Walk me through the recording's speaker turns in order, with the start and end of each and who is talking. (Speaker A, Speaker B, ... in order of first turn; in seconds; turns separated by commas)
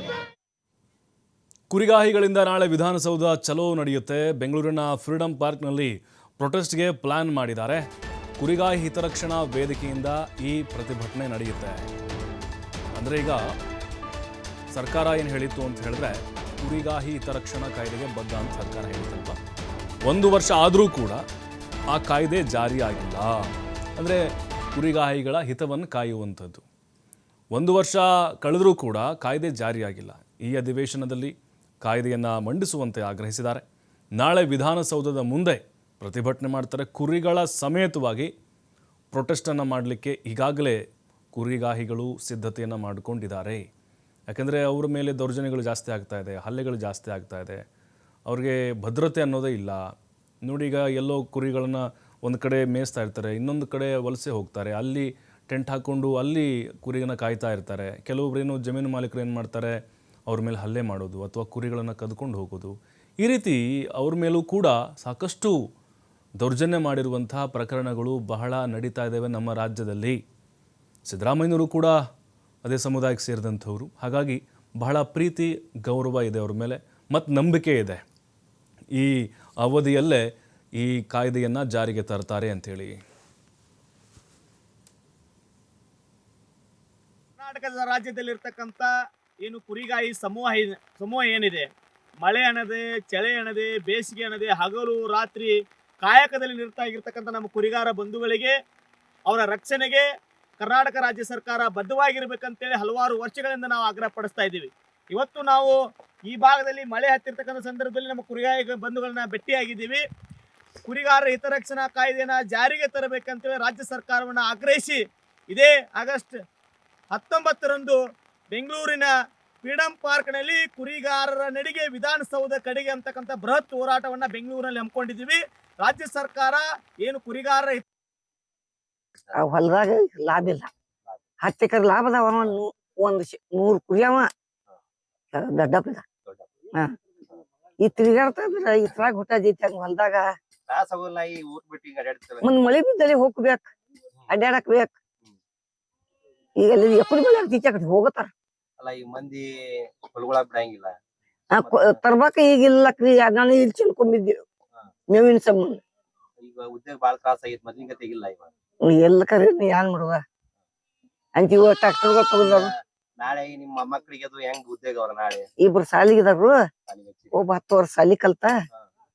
Speaker A: 1.7-7.8, Speaker A: 8.4-11.8, Speaker A: 12.9-13.4, Speaker A: 14.7-19.4, Speaker A: 20.1-21.2, Speaker A: 21.9-24.2, Speaker A: 24.7-26.6, Speaker A: 27.5-31.3, Speaker A: 31.8-33.6, Speaker A: 34.2-38.3, Speaker A: 39.1-40.8, Speaker A: 41.3-43.6, Speaker A: 44.3-47.6, Speaker A: 48.3-49.8, Speaker A: 50.4-59.7, Speaker A: 60.3-65.5, Speaker A: 66.4-70.2, Speaker A: 71.0-72.0, Speaker A: 72.6-78.0, Speaker A: 78.9-80.2, Speaker A: 80.8-83.0, Speaker B: 87.4-88.9, Speaker B: 89.4-91.7, Speaker B: 92.2-98.5, Speaker B: 99.3-100.0, Speaker B: 100.6-105.8, Speaker B: 106.3-110.0, Speaker B: 110.8-115.0, Speaker B: 115.5-116.3, Speaker B: 117.1-118.0, Speaker B: 118.5-119.1, Speaker B: 119.6-127.8, Speaker C: 129.3-130.7, Speaker C: 131.4-134.3, Speaker C: 135.3-136.0, Speaker D: 136.2-136.5, Speaker C: 137.8-140.2, Speaker D: 140.7-142.6, Speaker C: 142.4-143.6, Speaker C: 144.3-144.9, Speaker C: 146.6-148.3, Speaker D: 148.8-149.4, Speaker D: 150.0-150.9, Speaker C: 151.5-154.4, Speaker D: 151.6-152.0, Speaker C: 155.1-155.8, Speaker D: 156.4-158.5, Speaker C: 158.8-160.2, Speaker C: 161.4-162.7, Speaker D: 162.4-165.4, Speaker C: 165.6-166.6, Speaker D: 166.9-167.3, Speaker C: 167.3-168.5